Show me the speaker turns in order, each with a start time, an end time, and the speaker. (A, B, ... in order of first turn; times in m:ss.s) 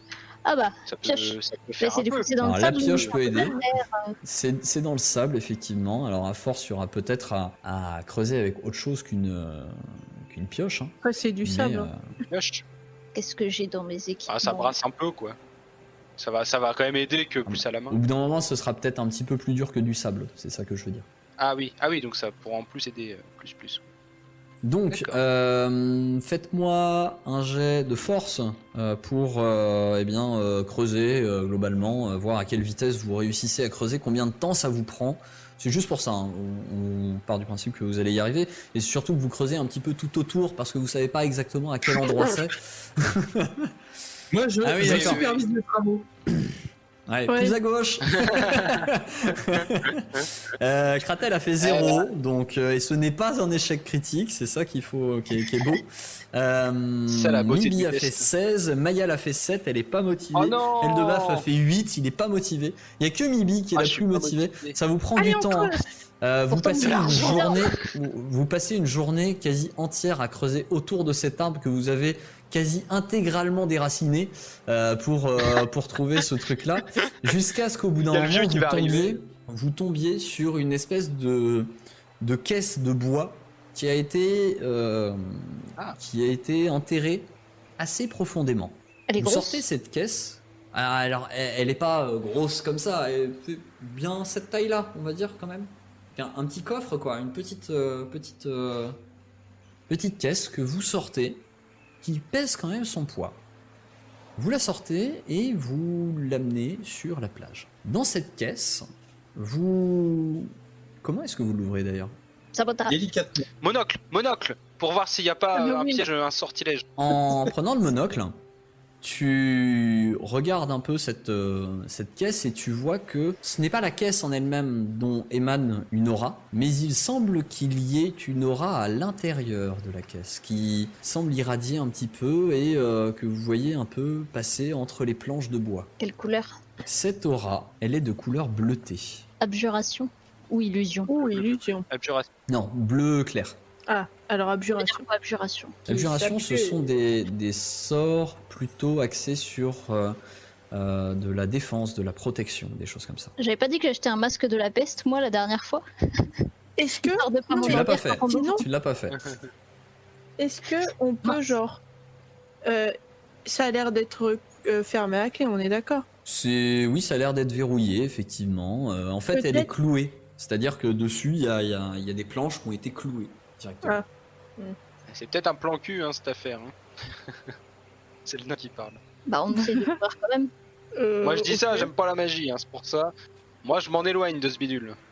0:00.4-0:04.2 A
0:00.9-0:03.1 B
0:02.4-0:03.6 C
0:04.2-0:09.8 C
0:10.3-0:12.0 C
0:11.0-0:11.9 D
0:12.3-0:12.6 B
0:13.2-0:14.7 A
0:14.3-0:15.4 B
0:16.2-0:18.0 B
0:17.5-0:21.1 C
0:21.4-0:23.9 B
0:24.6-0:43.7 C
0:24.9-0:25.2 B
0:44.3-0:46.1 E
0:44.6-0:45.2 C
0:44.8-0:45.4 B
0:47.1-1:39.0 C
0:47.3-0:47.6 D
0:48.2-0:48.9 B
0:49.6-0:50.3 B
0:51.6-0:52.1 B
0:57.1-0:58.3 B
1:00.4-1:01.4 B
1:03.8-1:04.8 B
1:05.2-1:05.8 D
1:06.5-1:07.6 A
1:06.8-1:07.8 B
1:18.0-1:19.2 B
1:29.1-1:29.6 A
1:39.9-1:41.4 C
1:42.0-1:43.4 C
1:44.4-1:52.2 C
1:52.6-1:53.0 A
1:52.9-1:53.4 E
1:53.6-1:56.9 B
1:55.6-1:56.1 A
1:57.0-1:58.4 C
1:59.0-2:15.9 C
2:16.0-2:16.6 A
2:16.9-2:19.3 C
2:19.4-2:21.1 A
2:21.1-2:21.9 D
2:21.2-2:22.3 B
2:22.5-2:23.6 C
2:23.9-2:25.0 D
2:24.8-2:25.8 A
2:25.9-2:30.2 C
2:25.9-2:26.9 D
2:30.7-2:33.3 C
2:33.4-2:35.8 A
2:36.8-2:38.6 D
2:37.1-2:38.6 A
2:37.6-2:39.2 C
2:39.1-2:39.5 B
2:40.4-2:41.8 D
2:42.6-2:42.9 D
2:43.4-2:46.0 D
2:46.3-2:54.0 C
2:49.3-2:49.7 D
2:55.1-2:57.5 B
2:58.3-2:59.0 B
2:59.3-3:00.5 A
2:59.5-3:00.0 D
3:01.0-3:01.9 D
3:01.2-3:03.1 B
3:03.6-3:05.0 B